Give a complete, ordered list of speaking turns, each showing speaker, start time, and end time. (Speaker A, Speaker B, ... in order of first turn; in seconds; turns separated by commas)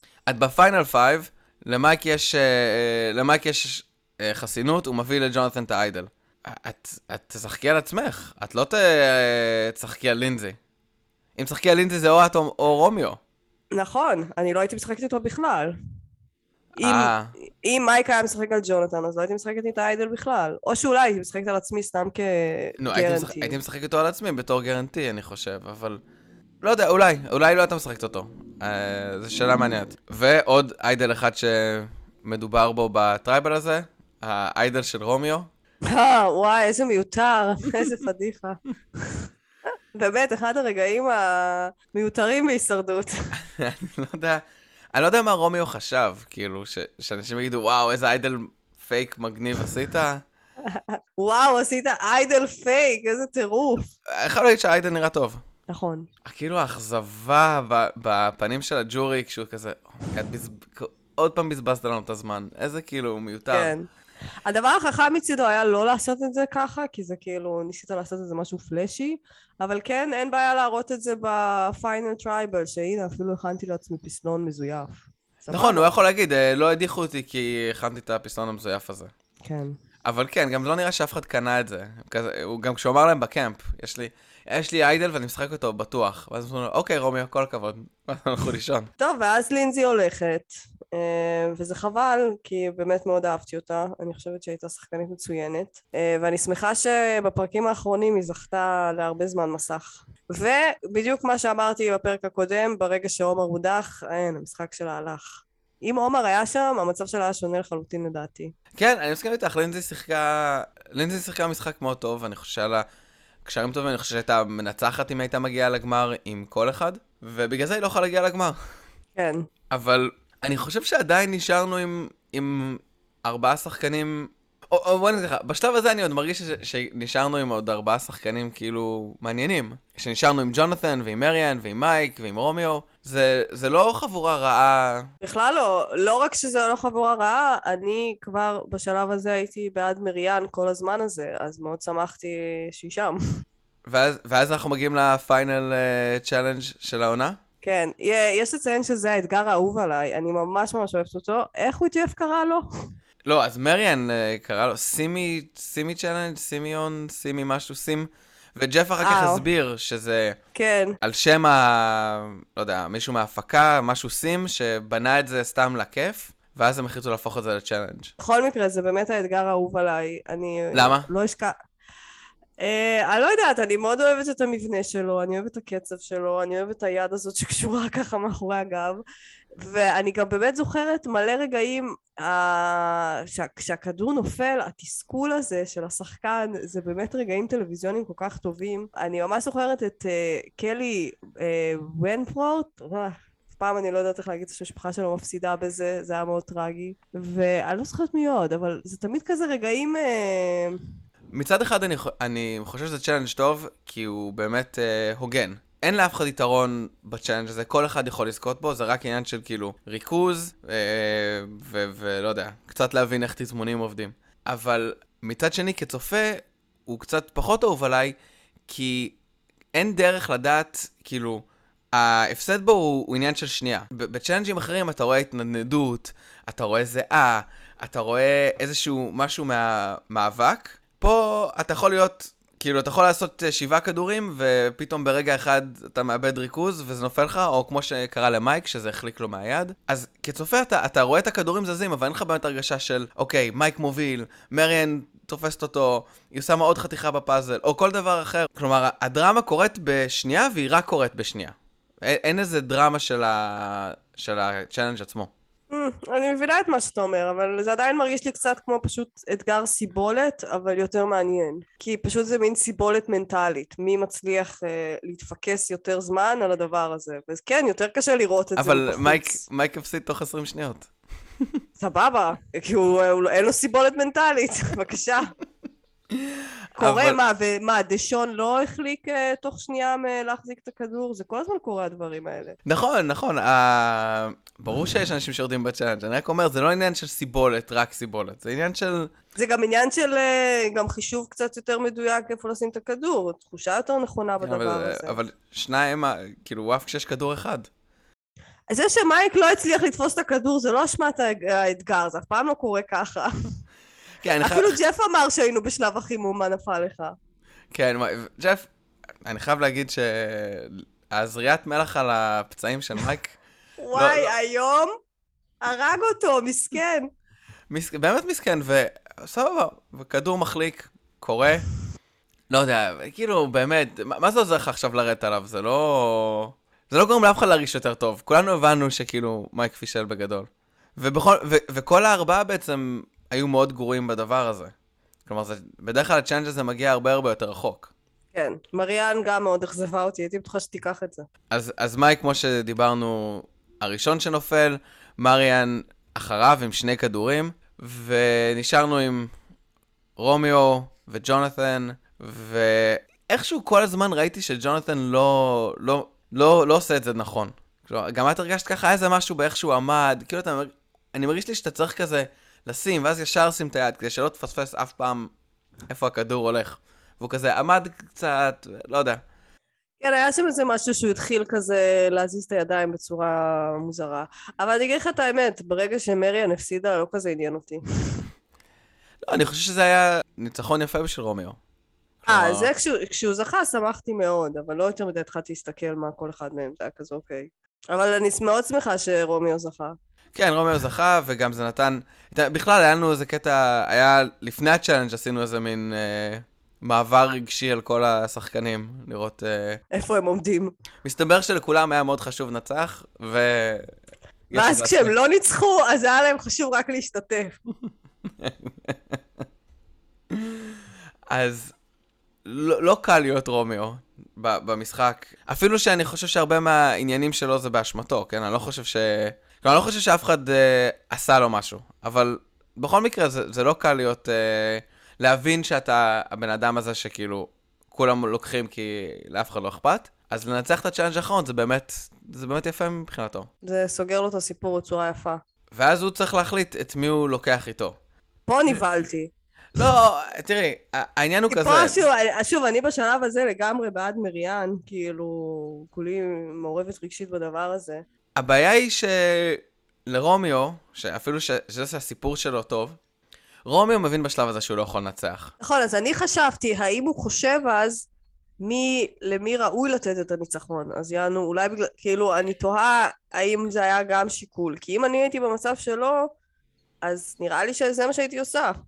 Speaker A: 0.3-10.6, Speaker A: 11.4-13.2, Speaker B: 13.7-15.8, Speaker A: 16.8-17.3, Speaker B: 16.8-23.6, Speaker A: 22.8-26.0, Speaker A: 26.6-35.5, Speaker B: 35.9-39.2, Speaker B: 39.9-43.3, Speaker A: 43.4-44.4, Speaker A: 44.9-50.2, Speaker B: 50.7-53.9, Speaker A: 54.1-55.4, Speaker B: 55.7-56.1, Speaker A: 56.2-63.7, Speaker B: 63.5-63.9, Speaker B: 64.5-75.9, Speaker A: 75.5-79.1, Speaker B: 79.5-79.8, Speaker A: 80.0-88.9, Speaker B: 89.0-108.5, Speaker A: 108.8-112.8, Speaker A: 113.5-118.6, Speaker B: 119.2-119.5, Speaker A: 119.7-135.1, Speaker B: 135.2-143.2, Speaker A: 143.9-147.4, Speaker B: 147.6-152.7, Speaker A: 153.3-160.4, Speaker B: 159.0-159.4, Speaker B: 160.6-161.0, Speaker A: 161.0-168.1, Speaker B: 168.2-171.5, Speaker A: 170.7-171.1, Speaker B: 172.6-179.0, Speaker B: 179.6-200.8, Speaker A: 201.3-218.2, Speaker A: 218.7-219.2, Speaker A: 219.7-255.3, Speaker B: 255.7-269.4, Speaker A: 268.6-270.9, Speaker B: 271.8-275.3, Speaker A: 276.1-277.2, Speaker B: 276.8-282.6, Speaker A: 282.6-289.1, Speaker B: 289.4-295.2, Speaker A: 294.4-297.7, Speaker B: 298.7-303.3, Speaker A: 304.2-304.8, Speaker B: 304.4-307.1, Speaker A: 307.7-308.7, Speaker A: 309.2-313.4, Speaker B: 313.8-314.9, Speaker A: 313.9-314.3, Speaker B: 315.6-317.1, Speaker A: 317.7-321.6, Speaker A: 322.5-334.7, Speaker A: 335.3-337.9, Speaker B: 338.3-341.3, Speaker A: 341.5-349.3, Speaker A: 350.2-365.3, Speaker A: 365.9-369.2, Speaker B: 370.0-377.8, Speaker A: 379.3-381.6, Speaker A: 382.2-382.7, Speaker B: 382.3-389.9, Speaker A: 390.4-399.8, Speaker B: 399.9-400.7, Speaker A: 401.0-403.9, Speaker A: 404.5-405.1, Speaker B: 404.5-407.6, Speaker A: 408.3-409.2, Speaker A: 410.3-411.7, Speaker A: 412.4-433.5, Speaker B: 433.6-435.4, Speaker A: 435.7-438.0, Speaker B: 438.5-439.3, Speaker A: 439.8-442.0, Speaker B: 441.5-448.0, Speaker A: 448.4-453.0, Speaker A: 453.7-455.5, Speaker B: 455.6-458.1, Speaker B: 458.6-466.3, Speaker B: 467.0-468.8